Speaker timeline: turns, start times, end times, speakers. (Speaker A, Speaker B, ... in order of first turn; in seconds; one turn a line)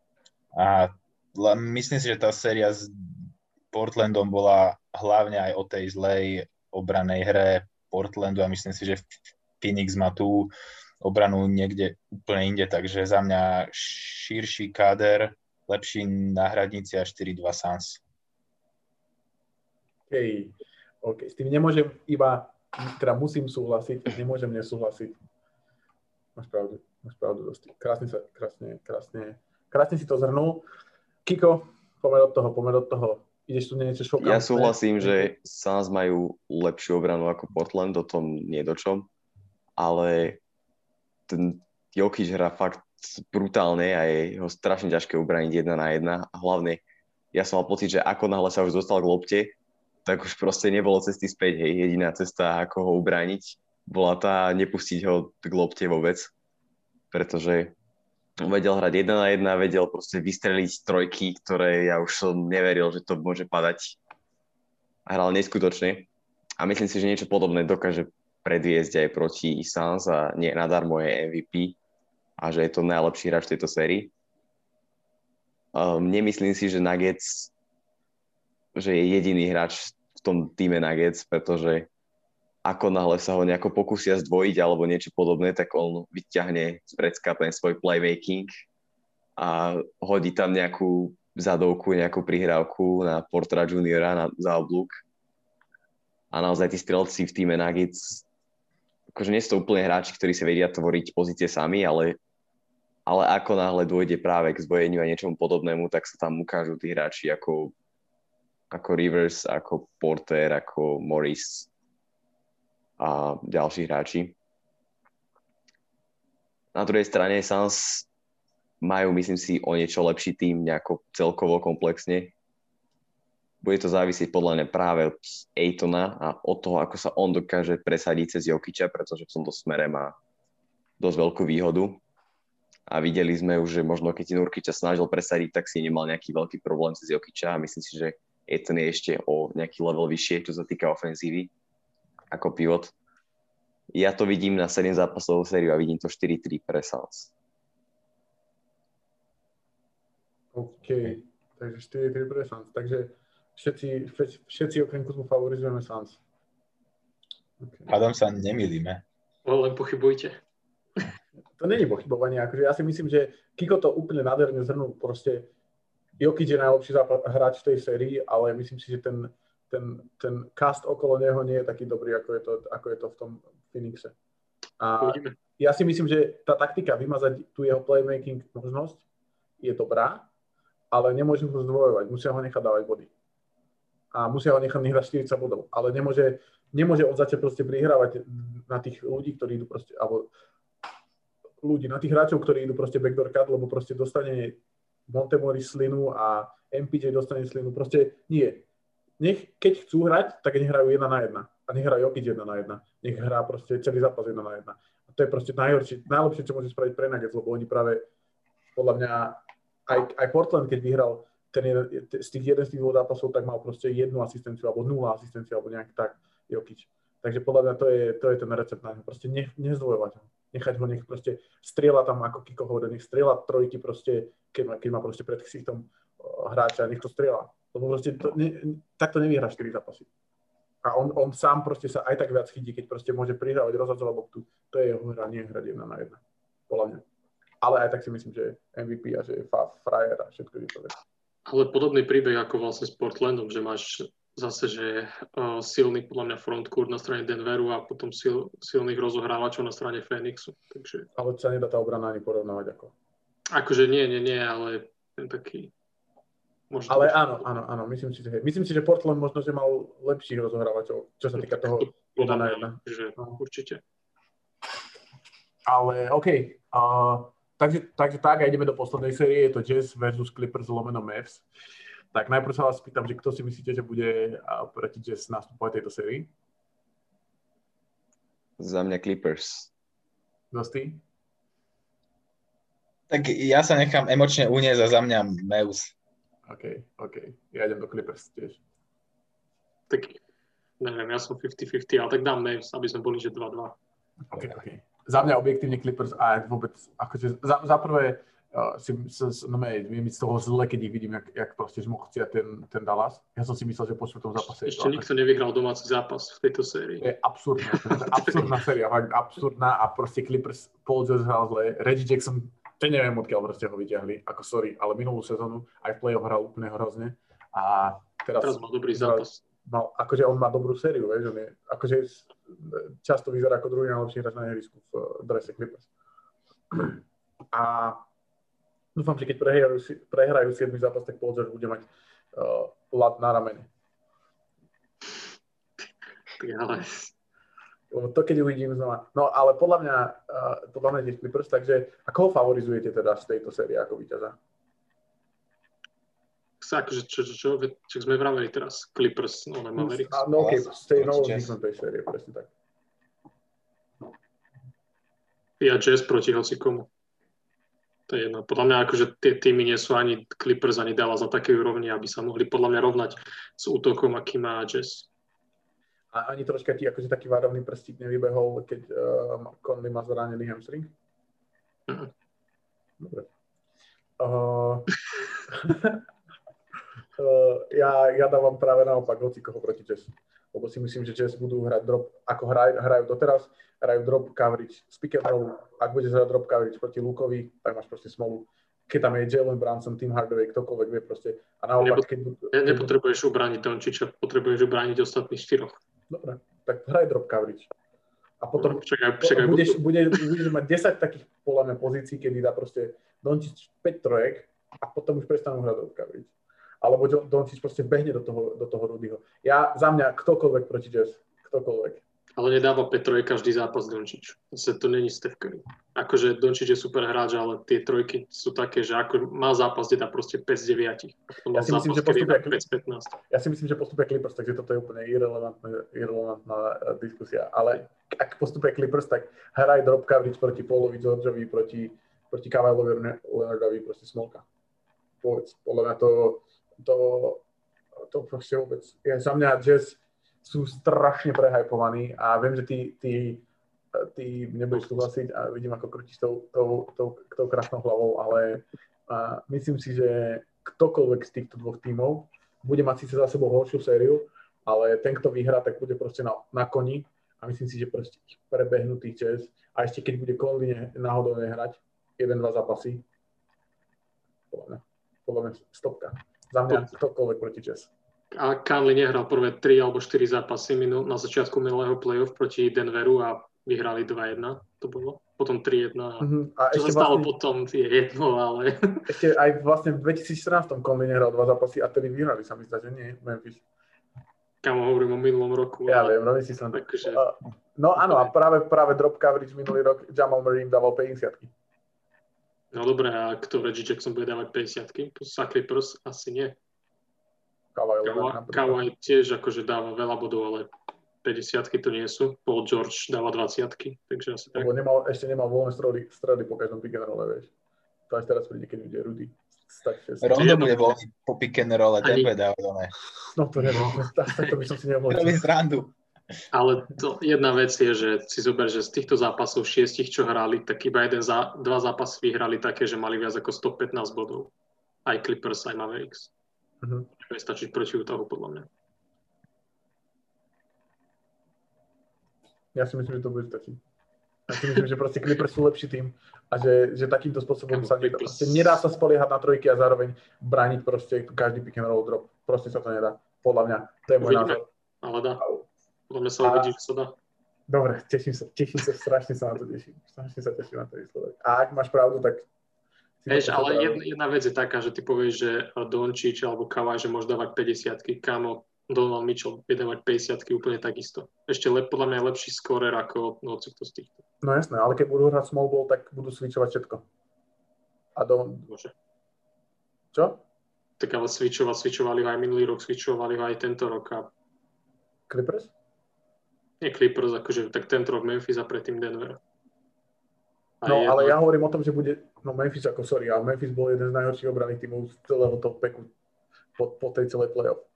Speaker A: 0.5-18.0
Speaker B: 20.1-25.2
Speaker B: 26.4-30.6
Speaker B: 31.2-35.3
Speaker C: 34.2-39.1
Speaker C: 39.8-40.4
Speaker C: 41.3-46.8
Speaker C: 47.3-56.3
Speaker C: 57.1-57.7
Speaker C: 58.4-64.0
Speaker C: 65.0-66.1
Speaker C: 66.6-71.8
Speaker C: 72.4-74.1
Speaker C: 75.7-77.5
Speaker C: 78.7-81.9
Speaker C: 82.6-88.5
Speaker C: 89.4-95.0
Speaker C: 96.3-98.2
Speaker C: 99.1-102.2
Speaker C: 103.0-107.7
Speaker C: 108.7-111.7
Speaker C: 113.0-114.3
Speaker C: 116.7-118.1
Speaker C: 118.8-122.3
Speaker C: 123.6-130.2
Speaker C: 131.0-132.0
Speaker C: 132.9-141.5
Speaker C: 142.3-142.9
Speaker C: 143.9-147.3
Speaker B: 150.5-156.2
Speaker B: 157.6-157.9
Speaker A: 157.9-159.0
Speaker D: 159.4-160.4
Speaker B: 161.6-165.5
Speaker B: 166.2-174.1
Speaker B: 174.8-179.0
Speaker D: 175.0-175.3
Speaker B: 179.6-180.3
Speaker B: 180.9-183.1
Speaker B: 184.1-190.3
Speaker B: 191.6-198.6
Speaker B: 199.2-208.1
Speaker B: 208.7-230.1
Speaker B: 230.8-237.0
Speaker B: 237.6-240.9
Speaker D: 241.4-251.1
Speaker B: 251.2-252.9
Speaker D: 253.5-255.7
Speaker D: 256.7-257.2
Speaker B: 256.9-263.3
Speaker D: 261.4-263.8
Speaker B: 265.7-271.4
Speaker B: 272.1-276.3
Speaker C: 278.6-279.7
Speaker B: 280.5-281.0
Speaker A: 283.1-285.9
Speaker B: 286.5-288.6
Speaker D: 289.9-290.2
Speaker D: 290.8-293.8
Speaker B: 294.3-305.1
Speaker D: 304.6-307.1
Speaker B: 307.0-325.9
Speaker D: 307.6-308.6
Speaker D: 318.4-319.4
Speaker B: 326.7-327.0
Speaker B: 327.5-328.1
Speaker B: 328.9-333.7
Speaker D: 336.4-337.1
Speaker B: 337.9-344.4
Speaker D: 346.6-350.2
Speaker B: 349.8-352.5
Speaker A: 350.4-351.5
Speaker D: 355.6-356.9
Speaker D: 358.1-365.1
Speaker B: 366.1-370.9
Speaker B: 373.0-373.3
Speaker B: 374.2-374.9
Speaker B: 375.5-376.0
Speaker B: 377.2-392.9
Speaker D: 391.8-395.8
Speaker B: 396.1-397.7
Speaker B: 398.4-412.0
Speaker D: 398.6-400.2
Speaker D: 412.4-423.1
Speaker B: 421.5-422.6
Speaker B: 423.3-434.4
Speaker B: 435.2-437.4
Speaker B: 438.1-463.0
Speaker B: 464.5-467.9
Speaker D: 468.3-479.1
Speaker B: 476.2-477.3
Speaker B: 479.1-483.6
Speaker D: 484.6-486.2
Speaker B: 485.9-491.5
Speaker D: 486.7-487.2
Speaker D: 488.0-488.3
Speaker D: 492.7-496.6
Speaker B: 497.7-498.9
Speaker D: 498.0-500.7
Speaker D: 501.2-504.7
Speaker B: 504.5-507.5
Speaker B: 508.1-510.4
Speaker A: 510.2-512.9
Speaker D: 510.3-510.8
Speaker D: 512.0-512.3
Speaker B: 513.3-515.4
Speaker D: 513.7-514.5
Speaker A: 515.1-515.9
Speaker D: 516.5-524.5
Speaker D: 525.0-526.3
Speaker B: 526.8-527.1
Speaker D: 527.2-528.7
Speaker B: 532.7-533.8
Speaker B: 534.5-544.6
Speaker D: 537.7-538.8
Speaker D: 544.2-545.4
Speaker D: 546.1-547.1
Speaker B: 546.4-546.7
Speaker B: 547.7-552.5
Speaker B: 553.2-554.0
Speaker D: 553.3-564.2
Speaker B: 564.4-567.0
Speaker B: 568.1-568.7
Speaker D: 568.7-568.9
Speaker B: 570.1-570.4
Speaker D: 571.0-574.3
Speaker B: 575.3-575.7
Speaker D: 576.8-579.4
Speaker D: 580.8-581.4
Speaker B: 580.8-586.1
Speaker B: 586.8-587.9